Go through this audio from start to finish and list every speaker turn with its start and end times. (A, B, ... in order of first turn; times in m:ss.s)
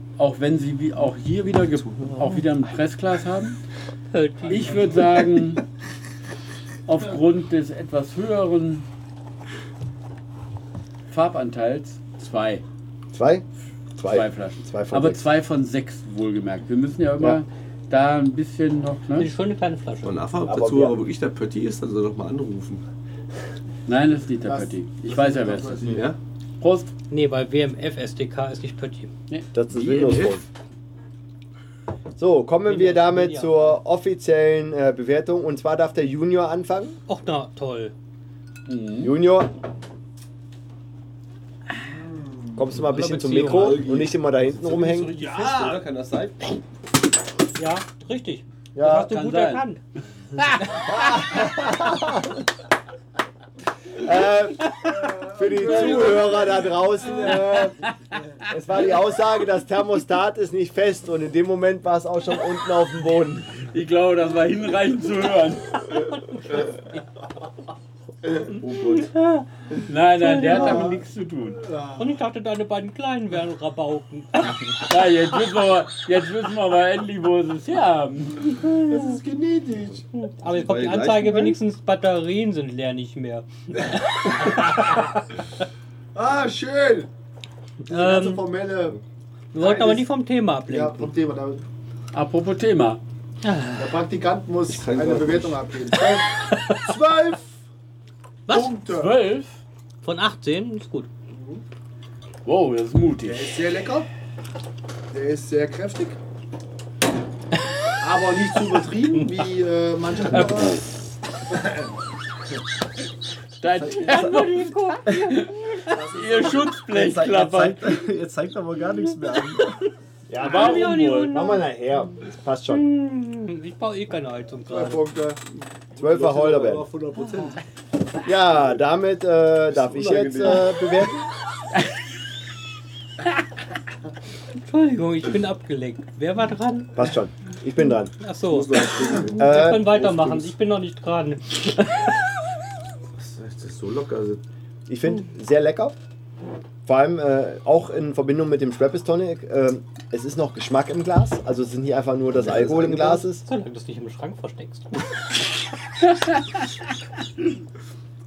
0:00.2-0:03.6 A
0:01.7-0:02.4 B
0:04.1-0:05.1 C
0:04.5-0:05.6 A
0:06.8-0:08.9 A
0:11.1-0:12.6 A
0:13.1-0:13.4 D
0:14.0-0:15.2 D
0:14.0-0:19.3 A
0:19.1-0:20.2 C
0:20.0-0:22.8 B
0:20.4-0:21.0 D
0:23.8-0:26.0 A
0:24.4-0:26.1 E
0:25.8-0:26.2 B
0:26.6-0:26.9 A
0:27.1-0:29.1 C
0:29.5-0:30.4 D
0:29.7-0:30.4 B
0:32.2-0:37.0 D
0:32.7-0:33.8 C
0:37.1-0:37.9 C
0:38.6-0:39.1 A
0:39.0-0:39.5 D
0:42.1-0:42.6 E
0:42.6-0:45.2 D
0:42.8-0:43.9 C
0:43.3-0:46.4 B
0:45.2-0:45.8 E
0:47.6-0:49.8 C
0:48.7-0:49.1 D
0:49.0-0:49.6 A
0:50.4-0:51.2 A
0:50.8-0:52.4 D
0:53.9-0:57.8 D
0:54.8-0:57.4 E
0:57.2-0:57.7 A
0:58.5-1:03.6 D
1:03.7-1:06.0 A
1:08.5-1:09.1 B
1:08.9-1:09.4 C
1:09.8-1:11.6 A
1:10.2-1:11.0 C
1:10.3-1:11.0 E
1:11.6-1:12.2 E
1:12.0-1:14.6 C
1:14.8-1:18.7 A
1:18.8-1:20.0 E
1:20.1-1:25.0 C
1:20.4-1:21.6 B
1:26.1-1:27.1 E
1:27.8-1:28.4 C
1:27.9-1:29.0 E
1:29.5-1:31.1 C
1:29.5-1:30.1 E
1:30.7-1:31.6 E
1:32.1-1:33.0 A
1:33.4-1:34.0 C
1:33.8-1:37.6 E
1:34.7-1:35.6 B
1:36.5-1:36.8 C
1:38.5-1:38.7 C
1:38.5-1:39.2 E
1:38.9-1:39.6 A
1:40.0-1:41.1 C
1:42.4-1:43.6 A
1:43.2-1:44.1 E
1:45.1-1:46.2 E
1:48.0-1:50.8 E
1:50.3-1:50.6 A
1:51.5-1:51.9 E
1:53.6-1:58.0 A
1:53.8-1:54.5 B
1:53.9-1:55.8 C
1:55.9-1:59.7 B
2:00.3-2:02.8 D
2:00.4-2:01.4 A
2:00.4-2:01.7 C
2:02.7-2:05.0 C
2:04.7-2:05.4 E
2:05.9-2:07.6 B
2:06.0-2:06.9 D
2:08.2-2:11.3 D
2:09.7-2:10.7 B
2:14.5-2:17.0 C
2:17.0-2:18.1 D
2:18.2-2:22.1 C
2:18.4-2:20.5 B
2:19.4-2:20.0 D
2:23.1-2:24.4 B
2:24.9-2:26.0 D
2:26.8-2:33.4 D
2:32.3-2:33.2 B
2:33.3-2:34.9 C